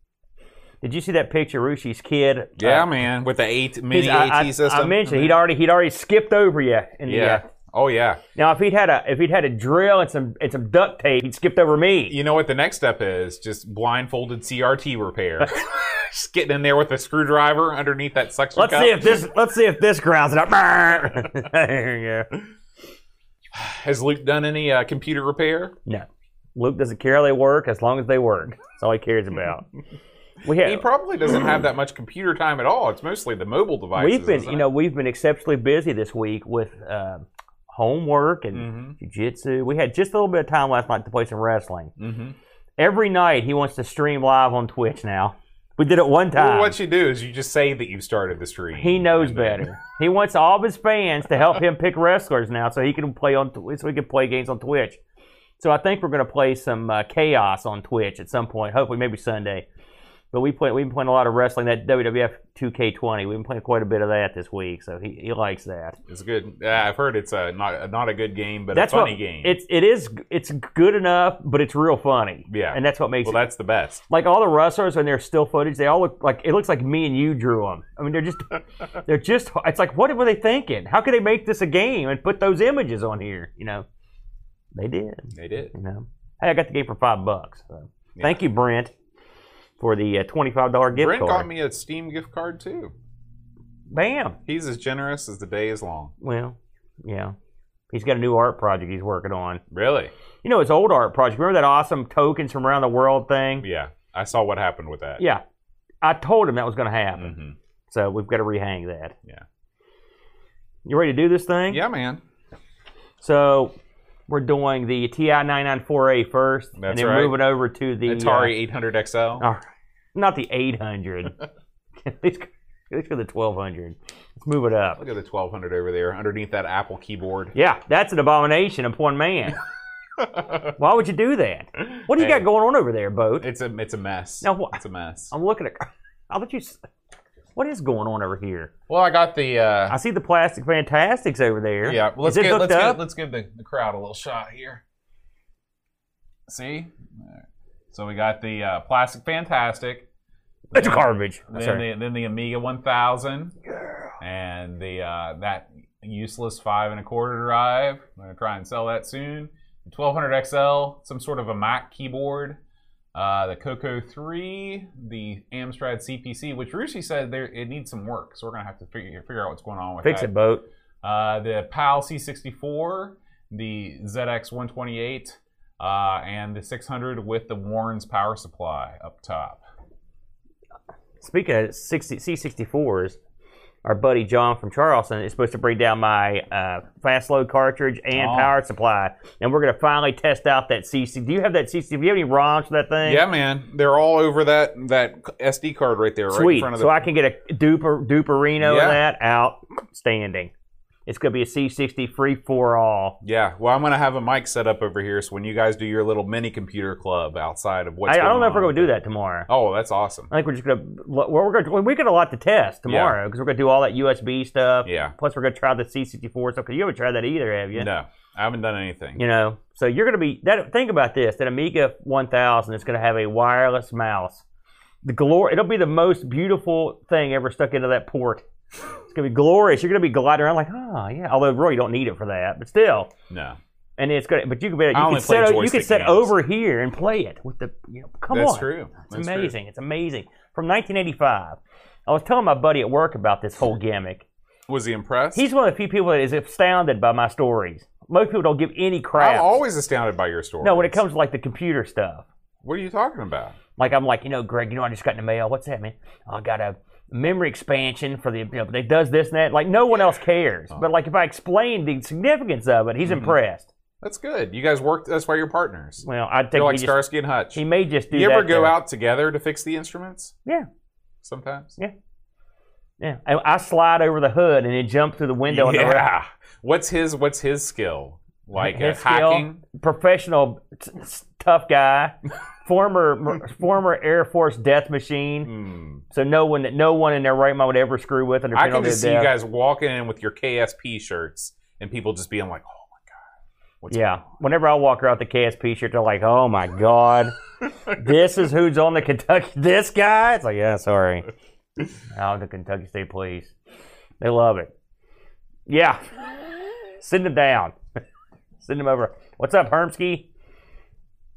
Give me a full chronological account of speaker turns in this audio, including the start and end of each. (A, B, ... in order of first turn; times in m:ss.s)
0:00.8-0:02.9 A
0:02.6-0:05.4 B
0:03.9-0:07.4 A
0:07.1-0:08.2 B
0:08.3-0:12.1 A
0:12.1-0:19.2 B
0:18.6-0:22.4 A
0:23.5-0:25.7 B
0:25.8-0:29.7 A
0:30.4-0:30.8 A
0:30.5-0:34.7 B
0:33.9-0:41.9 A
0:38.5-0:39.0 B
0:42.0-0:42.4 B
0:42.8-0:46.8 A
0:46.3-0:49.7 B
0:48.8-0:55.0 A
0:55.6-0:59.6 A
1:00.3-1:06.0 A
1:06.1-1:09.6 B
1:08.7-1:13.4 A
1:12.5-1:14.0 B
1:14.1-1:23.8 A
1:24.7-1:28.9 A
1:25.3-1:25.7 B
1:28.1-1:28.4 B
1:29.8-1:31.5 A
1:30.9-1:32.9 B
1:33.9-1:34.4 A
1:34.4-1:36.1 B
1:36.2-1:37.3 A
1:37.9-1:39.6 A
1:39.7-1:40.1 B
1:40.4-1:43.6 A
1:43.6-1:45.2 B
1:46.0-1:47.3 A
1:47.2-1:47.6 B
1:47.9-1:49.1 A
1:50.8-1:51.8 A
1:51.7-1:52.2 B
1:53.2-1:53.7 A
1:54.3-1:58.5 A
1:56.8-1:57.4 B
1:58.0-1:59.4 B
1:59.4-2:01.4 A
2:02.0-2:05.0 A
2:05.0-2:07.5 B
2:07.5-2:09.6 A
2:10.2-2:10.7 B
2:10.8-2:13.4 A
2:12.1-2:12.4 B
2:13.4-2:15.3 B
2:14.4-2:16.8 A
2:17.5-2:18.7 A
2:18.9-2:20.0 B
2:19.9-2:23.0 A
2:21.8-2:24.8 B
2:26.5-2:30.0 B
2:30.7-2:33.5 B
2:30.7-2:31.8 A
2:34.2-2:42.6 B
2:43.1-2:50.3 B
2:50.0-2:50.6 A
2:51.0-2:59.6 B
3:01.2-3:03.2 A
3:03.8-3:13.2 A
3:08.1-3:08.6 B
3:13.0-3:17.0 B
3:16.3-3:20.5 A
3:18.6-3:19.0 B
3:21.1-3:23.2 A
3:23.2-3:28.9 B
3:28.1-3:29.5 A
3:29.5-3:30.3 B
3:30.3-3:37.9 A
3:32.9-3:33.2 B
3:34.8-3:35.1 B
3:37.7-3:39.2 B
3:39.2-3:44.4 A
3:45.0-3:48.4 A
3:49.0-3:53.1 A
3:53.3-3:53.6 B
3:54.0-4:04.2 A
3:54.9-3:56.3 B
3:58.3-3:59.5 B
4:04.7-4:05.5 B
4:05.3-4:09.6 A
4:09.2-4:11.0 B
4:10.6-4:12.2 A
4:12.6-4:13.6 B
4:13.8-4:23.7 A
4:23.0-4:23.4 B
4:24.0-4:30.3 B
4:26.0-4:27.0 A
4:27.5-4:28.8 A
4:31.2-4:31.8 B
4:33.0-4:36.1 A
4:35.5-4:39.6 B
4:38.6-4:45.5 A
4:45.4-4:46.0 B
4:46.1-4:49.3 A
4:48.5-4:53.2 B
4:53.8-4:54.2 B
4:53.9-4:57.3 A
4:57.9-5:01.3 A
5:02.1-5:03.5 A
5:04.2-5:04.7 A
5:05.7-5:06.0 A
5:07.0-5:07.7 A
5:08.6-5:10.3 A